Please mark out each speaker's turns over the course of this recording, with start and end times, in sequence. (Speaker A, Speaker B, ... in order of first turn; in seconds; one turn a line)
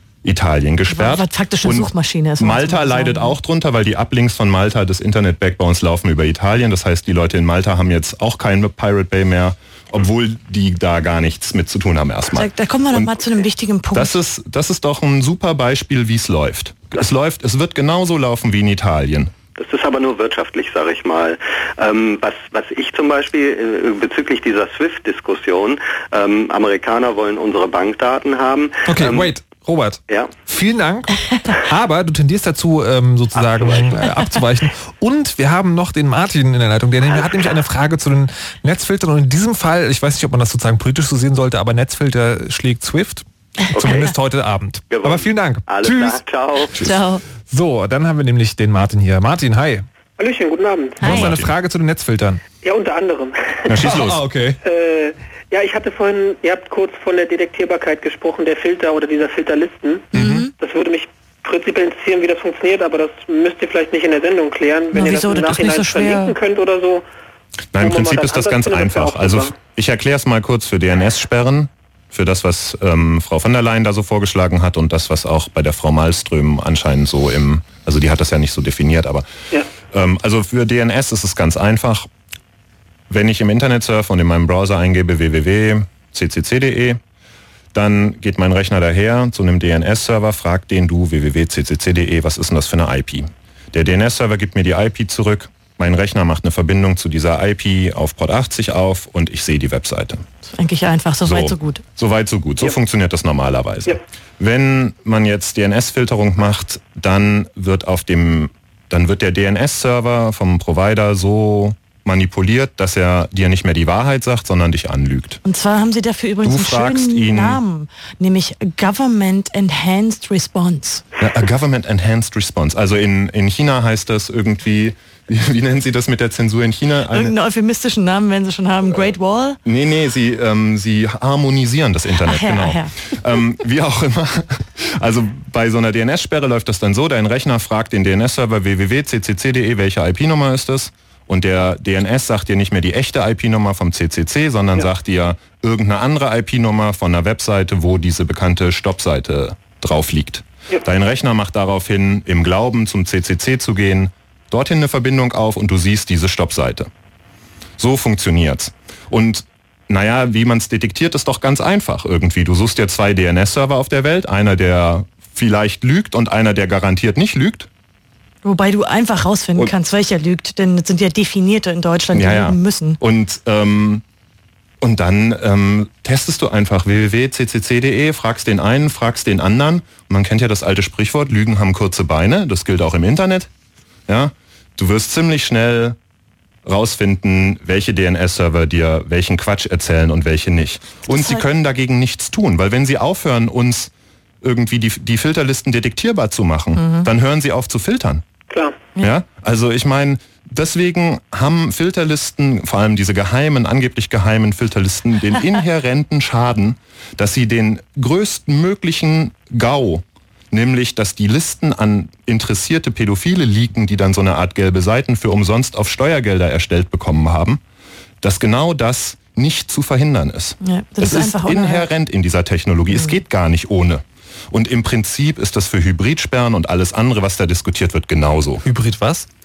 Speaker A: 0.2-13.2
Speaker B: 0.9-3.4
Speaker B: 12.4-14.2
Speaker A: 13.9-19.3
Speaker C: 19.6-29.4
Speaker D: 28.9-46.2
Speaker C: 33.6-33.9
Speaker C: 37.1-37.5
Speaker C: 43.8-44.1
Speaker C: 44.9-46.7
Speaker B: 46.8-47.2
Speaker D: 47.5-49.9
Speaker E: 50.2-51.1
Speaker D: 51.0-52.4
Speaker A: 51.0-51.5
Speaker E: 52.6-53.8
Speaker A: 53.7-54.2
Speaker D: 53.8-54.6
Speaker E: 54.6-67.0
Speaker B: 60.1-60.5
Speaker A: 60.2-60.4
Speaker B: 64.9-66.4
Speaker A: 67.7-79.2
Speaker E: 67.8-69.5
Speaker A: 79.9-82.1
Speaker A: 83.1-87.0
Speaker A: 87.7-100.2
Speaker B: 100.5-101.8
Speaker A: 101.2-115.4
Speaker B: 115.4-121.0
Speaker A: 116.4-117.6
Speaker A: 121.2-127.3
Speaker B: 127.1-129.6
Speaker A: 129.7-156.9
Speaker B: 132.3-132.9
Speaker A: 157.8-167.7
Speaker B: 168.4-173.0
Speaker A: 172.1-174.0
Speaker A: 174.8-183.5
Speaker A: 184.1-186.0
Speaker A: 186.7-193.9
Speaker B: 191.1-191.5
Speaker A: 194.4-198.2
Speaker B: 196.8-197.1
Speaker E: 198.5-198.8
Speaker A: 199.0-217.6
Speaker A: 218.2-228.7
Speaker B: 220.6-221.9
Speaker B: 222.9-223.2
Speaker D: 228.7-229.3